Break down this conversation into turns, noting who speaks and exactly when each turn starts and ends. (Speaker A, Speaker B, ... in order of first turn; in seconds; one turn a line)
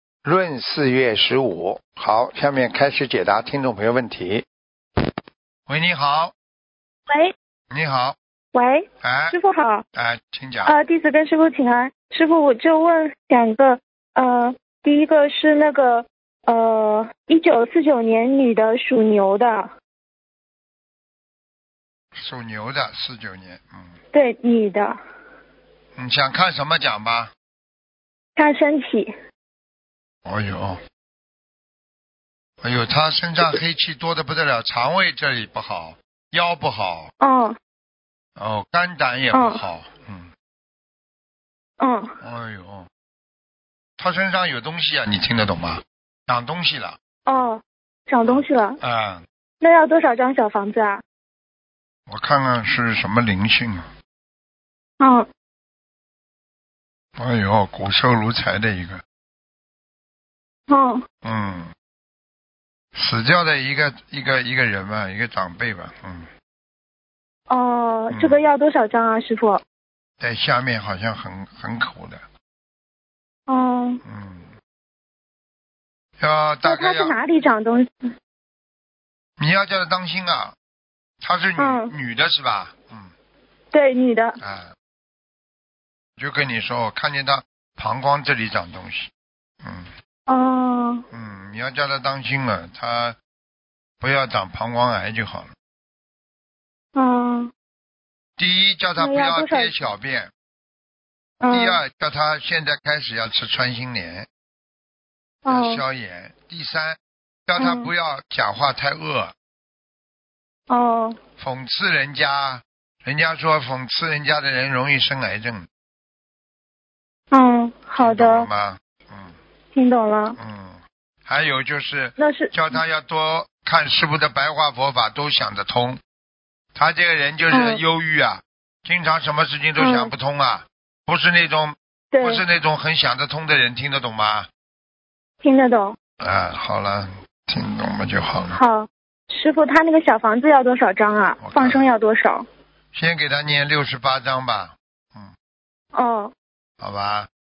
Speaker A: 0.2-4.5
Speaker A: 5.7-6.3
Speaker A: 7.7-8.2
Speaker B: 8.5-9.8
Speaker A: 9.0-9.4
Speaker A: 9.9-10.7
Speaker B: 10.7-19.7
Speaker A: 22.1-23.9
Speaker B: 24.1-25.0
Speaker A: 26.0-27.3
Speaker B: 28.4-29.1
Speaker A: 30.3-30.8
Speaker A: 32.6-37.1
Speaker B: 37.2-37.6
Speaker A: 38.4-40.3
Speaker B: 39.3-39.6
Speaker B: 41.8-42.1
Speaker A: 42.2-42.9
Speaker A: 44.0-47.5
Speaker B: 47.3-48.8
Speaker A: 48.3-49.2
Speaker B: 49.6-51.0
Speaker A: 52.1-53.9
Speaker B: 55.0-55.3
Speaker A: 57.2-59.0
Speaker B: 60.7-61.0
Speaker A: 61.2-61.7
Speaker A: 62.9-66.3
Speaker B: 67.5-69.6
Speaker A: 68.1-68.4
Speaker A: 70.2-72.2
Speaker B: 73.5-74.0
Speaker A: 74.0-74.5
Speaker A: 76.2-77.2
Speaker B: 76.6-78.1
Speaker A: 79.4-80.5
Speaker A: 81.2-83.1
Speaker B: 81.6-81.9
Speaker B: 83.7-84.4
Speaker A: 84.4-84.7
Speaker A: 86.2-89.1
Speaker A: 89.6-89.9
Speaker B: 90.3-91.0
Speaker A: 91.1-93.2
Speaker A: 94.0-95.5
Speaker B: 97.0-97.5
Speaker A: 98.4-100.3
Speaker B: 99.0-99.7
Speaker B: 101.4-101.8
Speaker A: 101.5-104.3
Speaker B: 105.5-105.8
Speaker A: 105.5-109.3
Speaker B: 107.6-107.9
Speaker B: 110.7-111.2
Speaker A: 111.4-115.7
Speaker B: 117.3-118.5
Speaker A: 118.0-119.4
Speaker B: 119.7-120.4
Speaker A: 120.4-126.0
Speaker B: 122.2-122.8
Speaker A: 126.8-134.5
Speaker B: 127.5-127.8
Speaker B: 129.8-130.1
Speaker B: 132.1-132.4
Speaker B: 135.4-136.0
Speaker A: 136.2-138.6
Speaker B: 138.5-142.5
Speaker A: 141.4-141.8
Speaker A: 142.9-145.3
Speaker B: 145.9-146.3
Speaker A: 146.8-147.3